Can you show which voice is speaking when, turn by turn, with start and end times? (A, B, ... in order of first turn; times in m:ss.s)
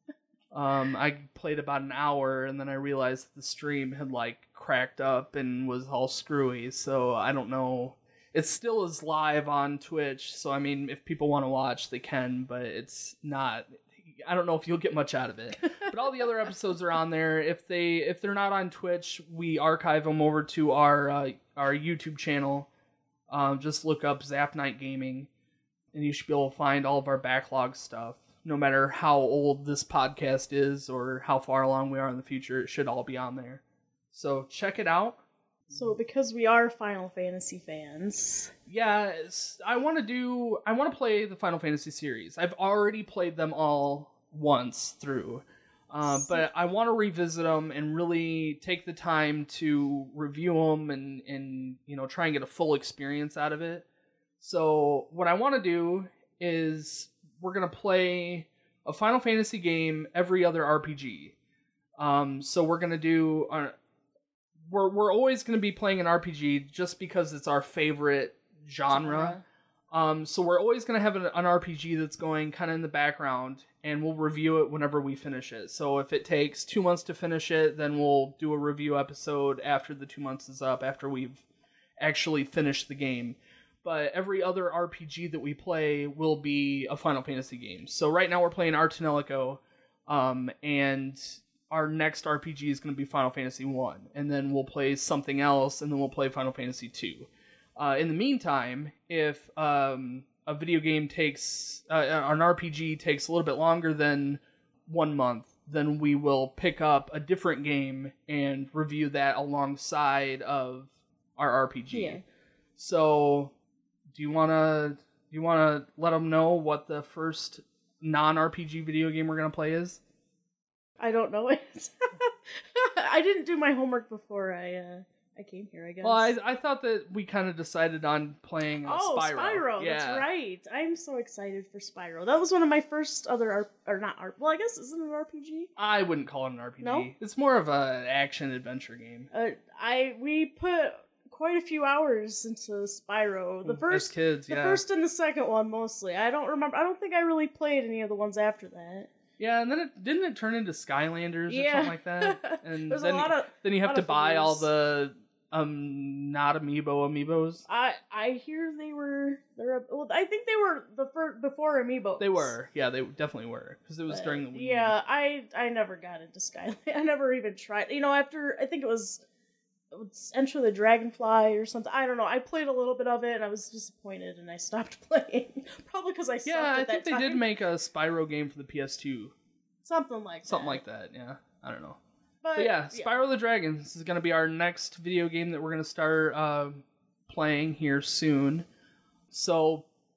0:00.5-0:22.7 A
0:23.3-0:25.3 A
0:25.9-0:35.9 A
0:35.7-0:38.5 B
0:38.7-0:53.9 A
0:46.0-0:46.5 B
0:54.4-1:01.4 A
1:02.0-1:03.7 A
1:04.7-1:09.4 A
1:08.9-1:09.4 B
1:09.9-1:21.4 A
1:22.0-1:52.2 A
1:51.9-1:52.2 B
1:52.8-1:53.5 A
1:54.1-2:00.0 A
2:01.0-2:06.3 B
2:06.0-2:10.3 A
2:08.8-2:15.7 B
2:15.8-2:19.3 A
2:16.8-2:17.1 B
2:19.3-2:29.1 B
2:23.6-2:24.8 A
2:29.4-2:37.6 A
2:31.5-2:34.7 B
2:37.7-2:42.6 B
2:42.2-2:44.9 A
2:44.1-2:49.2 B
2:49.9-2:57.5 B
2:56.4-2:59.4 A
2:59.8-3:00.8 B
3:00.4-3:02.0 A
3:02.4-3:03.2 B
3:02.6-3:08.7 A
3:09.3-3:09.9 A